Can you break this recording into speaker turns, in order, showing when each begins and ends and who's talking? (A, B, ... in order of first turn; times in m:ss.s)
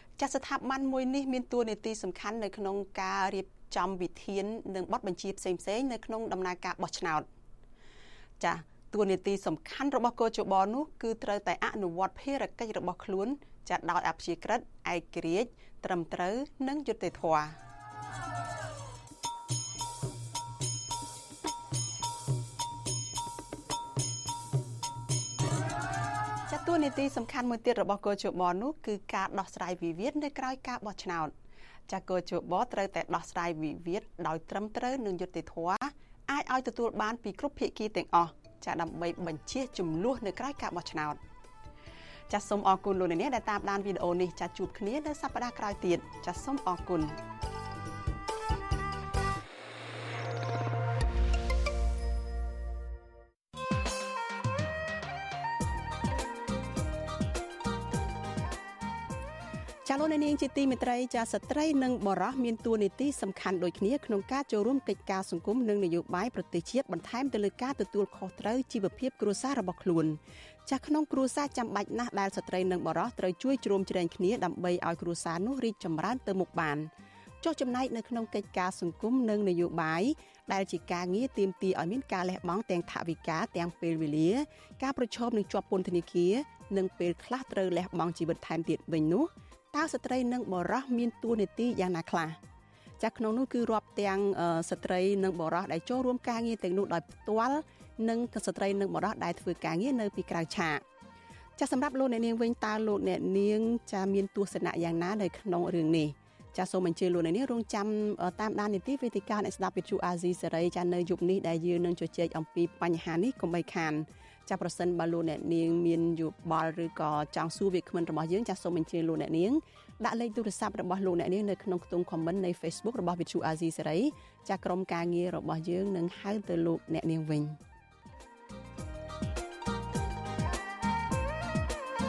0:00.2-0:07.2 A
0:08.4-0:17.6 A
0:26.5-0:31.3 A
0:31.9-0:41.2 A
0:42.3-0:47.2 A
0:59.8-1:16.9 A
1:17.4-1:32.4 A
1:33.0-1:40.8 A
1:41.6-2:07.6 A